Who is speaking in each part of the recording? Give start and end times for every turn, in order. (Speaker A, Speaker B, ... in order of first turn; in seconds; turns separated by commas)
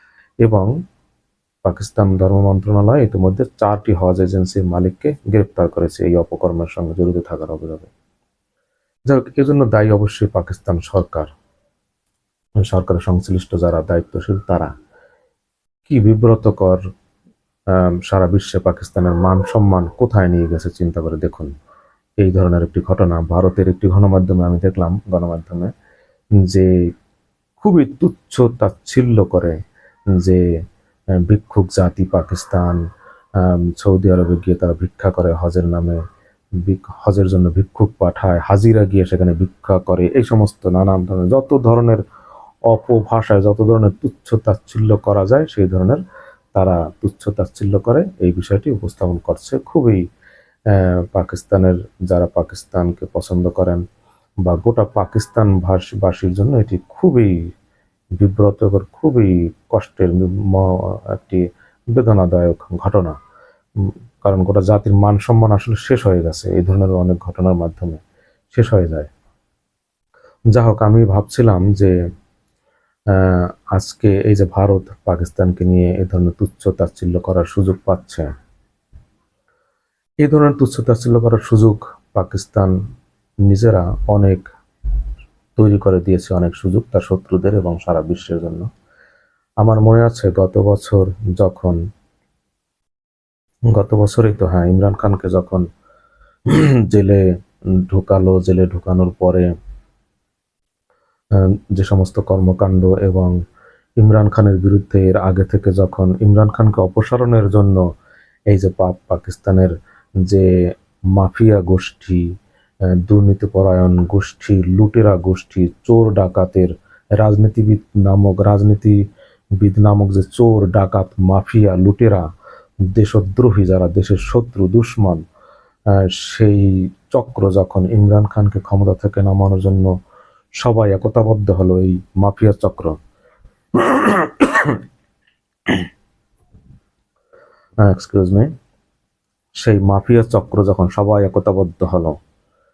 Speaker A: 0.4-0.7, Speaker A: 1.6-7.9, Speaker A: 9.1-11.3, Speaker A: 12.6-14.7, Speaker A: 15.9-16.9, Speaker A: 17.7-21.5, Speaker A: 22.2-25.7, Speaker A: 26.4-26.9, Speaker A: 27.6-29.6, Speaker A: 30.1-30.4, Speaker A: 31.3-32.8, Speaker A: 33.4-36.0, Speaker A: 36.6-42.0, Speaker A: 42.7-46.0, Speaker A: 46.5-50.0, Speaker A: 50.7-53.8, Speaker A: 54.4-57.4, Speaker A: 58.2-63.2, Speaker A: 63.8-68.0, Speaker A: 68.5-69.1, Speaker A: 70.5-72.0, Speaker A: 73.1-78.3, Speaker A: 80.2-82.8, Speaker A: 83.5-84.5, Speaker A: 85.6-88.7, Speaker A: 89.6-91.8, Speaker A: 93.7-95.7, Speaker A: 96.5-97.3, Speaker A: 97.8-99.5, Speaker A: 101.3-103.4, Speaker A: 104.0-107.9, Speaker A: 108.5-112.3, Speaker A: 113.0-119.0, Speaker A: 119.6-122.3, Speaker A: 122.8-125.2, Speaker A: 125.9-129.9, Speaker A: 130.6-132.9, Speaker A: 133.7-134.8, Speaker A: 137.8-138.5, Speaker A: 139.6-142.2